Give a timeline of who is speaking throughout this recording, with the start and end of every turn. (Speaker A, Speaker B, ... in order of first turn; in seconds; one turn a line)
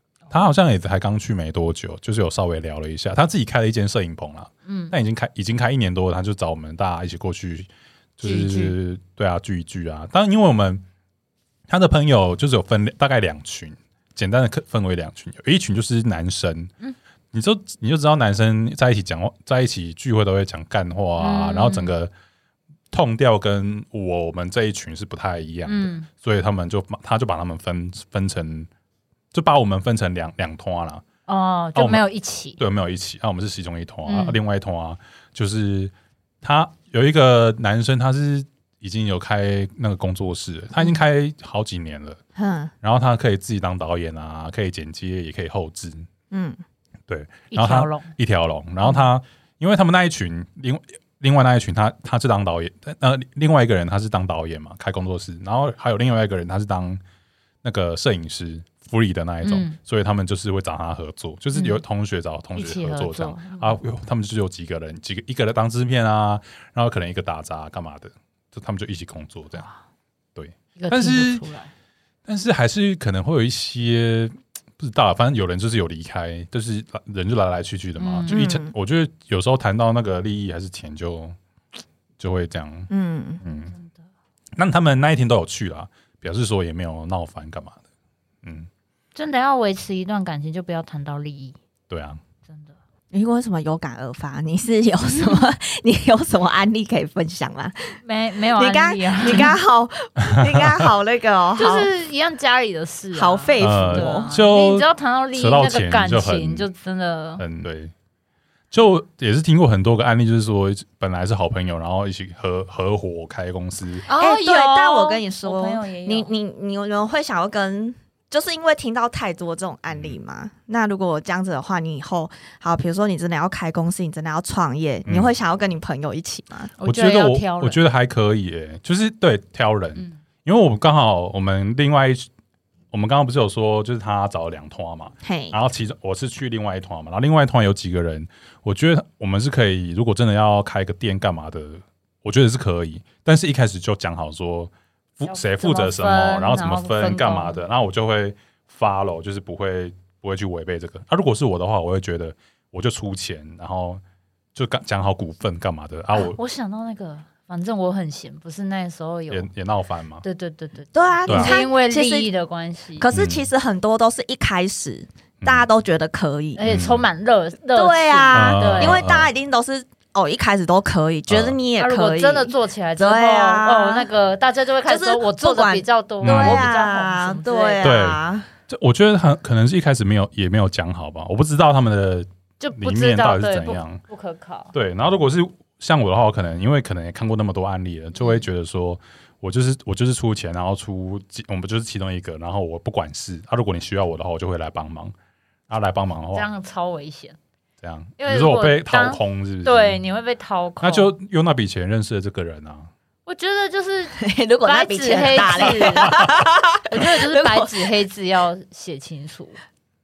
Speaker A: 0.3-10.8
Speaker B: 4.7-4.9
Speaker B: 8.2-8.8
Speaker A: 11.7-16.7
Speaker A: 17.3-22.1
Speaker B: 21.2-21.9
Speaker A: 22.9-28.7
Speaker B: 25.7-26.1
Speaker A: 29.3-31.0
Speaker B: 31.3-32.6
Speaker A: 31.8-32.0
Speaker A: 32.6-42.2
Speaker B: 34.1-34.4
Speaker C: 42.4-42.7
Speaker A: 42.8-46.1
Speaker C: 46.3-46.6
Speaker A: 47.1-57.0
Speaker B: 47.5-48.1
Speaker A: 57.6-69.7
Speaker B: 59.4-59.8
Speaker B: 61.5-61.8
Speaker B: 62.5-63.8
Speaker A: 70.4-71.5
Speaker B: 70.8-71.7
Speaker A: 72.3-81.4
Speaker B: 78.0-78.5
Speaker C: 78.3-78.7
Speaker A: 82.2-82.9
Speaker C: 82.9-83.4
Speaker A: 83.4-83.7
Speaker B: 83.5-84.0
Speaker A: 84.6-87.8
Speaker B: 89.2-91.6
Speaker A: 91.9-92.2
Speaker B: 92.5-92.7
Speaker C: 93.1-98.0
Speaker B: 98.0-99.6
Speaker C: 98.5-101.9
Speaker A: 100.3-100.7
Speaker B: 101.6-107.4
Speaker C: 103.1-104.4
Speaker A: 103.6-106.7
Speaker A: 107.4-107.9
Speaker A: 108.7-114.1
Speaker B: 114.1-116.3
Speaker C: 114.2-126.7
Speaker A: 125.1-125.3
Speaker B: 126.8-127.8
Speaker A: 126.8-132.3
Speaker A: 132.9-154.0
Speaker C: 135.2-135.6
Speaker B: 145.3-147.6
Speaker A: 154.6-156.4
Speaker B: 156.1-159.5
Speaker A: 159.3-160.2
Speaker B: 160.2-163.1
Speaker C: 160.9-162.3
Speaker A: 161.3-161.6
Speaker C: 163.0-166.6
Speaker A: 163.1-163.5
Speaker A: 165.4-165.7
Speaker B: 166.6-169.1
Speaker A: 166.6-167.1
Speaker C: 167.7-174.1
Speaker A: 168.3-169.3
Speaker A: 171.3-171.6
Speaker B: 171.8-178.0
Speaker C: 174.9-178.5
Speaker A: 176.2-176.7
Speaker A: 177.8-184.0
Speaker B: 182.6-184.7
Speaker A: 184.7-195.1
Speaker B: 188.2-188.5
Speaker A: 195.7-196.5
Speaker B: 196.3-197.4
Speaker A: 197.8-200.0
Speaker B: 198.2-201.1
Speaker A: 200.8-202.9
Speaker B: 203.3-206.3
Speaker C: 204.2-207.9
Speaker B: 206.9-209.6